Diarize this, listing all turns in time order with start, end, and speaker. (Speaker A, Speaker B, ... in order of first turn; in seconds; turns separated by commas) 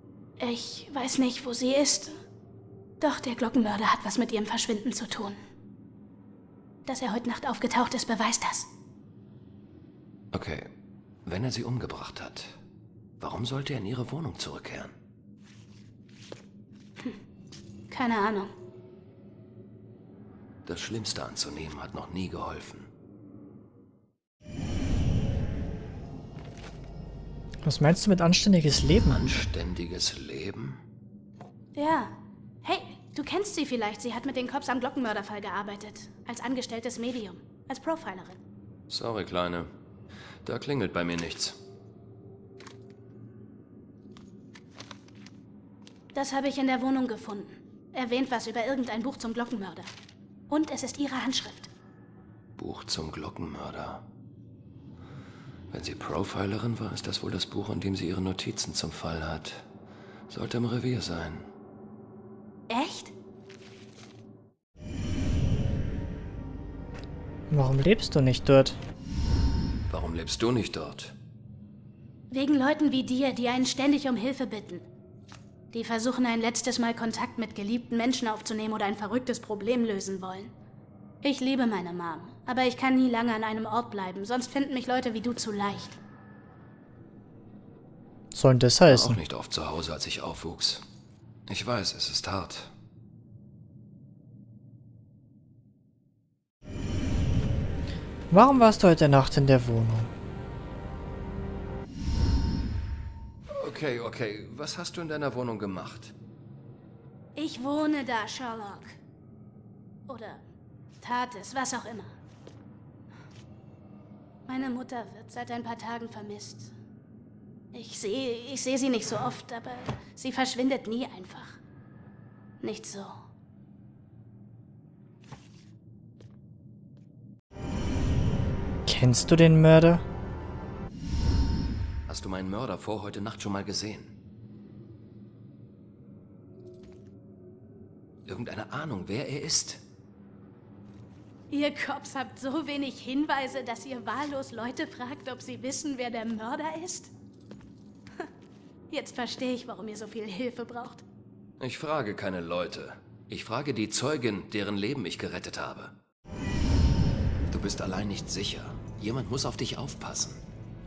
Speaker A: 0.4-2.1, Speaker A: 3.0-5.4, Speaker A: 6.8-8.7, Speaker B: 10.3-10.7, Speaker B: 11.2-12.5, Speaker B: 13.2-14.9, Speaker A: 17.9-18.5, Speaker B: 20.6-22.9, Speaker C: 27.6-29.3, Speaker B: 29.1-30.8, Speaker A: 31.7-38.4, Speaker B: 38.9-39.7, Speaker B: 40.4-41.6, Speaker A: 46.1-49.9, Speaker A: 50.5-51.7, Speaker B: 52.6-54.0, Speaker B: 55.7-59.6, Speaker B: 60.3-61.5, Speaker A: 62.7-63.1, Speaker C: 67.5-68.8, Speaker B: 69.9-71.1, Speaker A: 72.3-74.8, Speaker A: 75.7-80.5, Speaker A: 81.2-86.0, Speaker C: 88.3-89.2, Speaker B: 88.8-90.8, Speaker B: 91.5-92.7, Speaker C: 98.3-100.1, Speaker B: 103.5-106.1, Speaker A: 107.3-109.0, Speaker A: 110.1-110.4, Speaker A: 111.0-112.1, Speaker A: 114.5-116.7, Speaker A: 117.7-121.6, Speaker A: 122.6-123.1, Speaker C: 128.8-130.0, Speaker B: 132.1-134.1, Speaker B: 138.3-139.8, Speaker A: 141.5-147.1, Speaker A: 148.9-151.0, Speaker B: 151.6-155.9, Speaker B: 157.5-160.4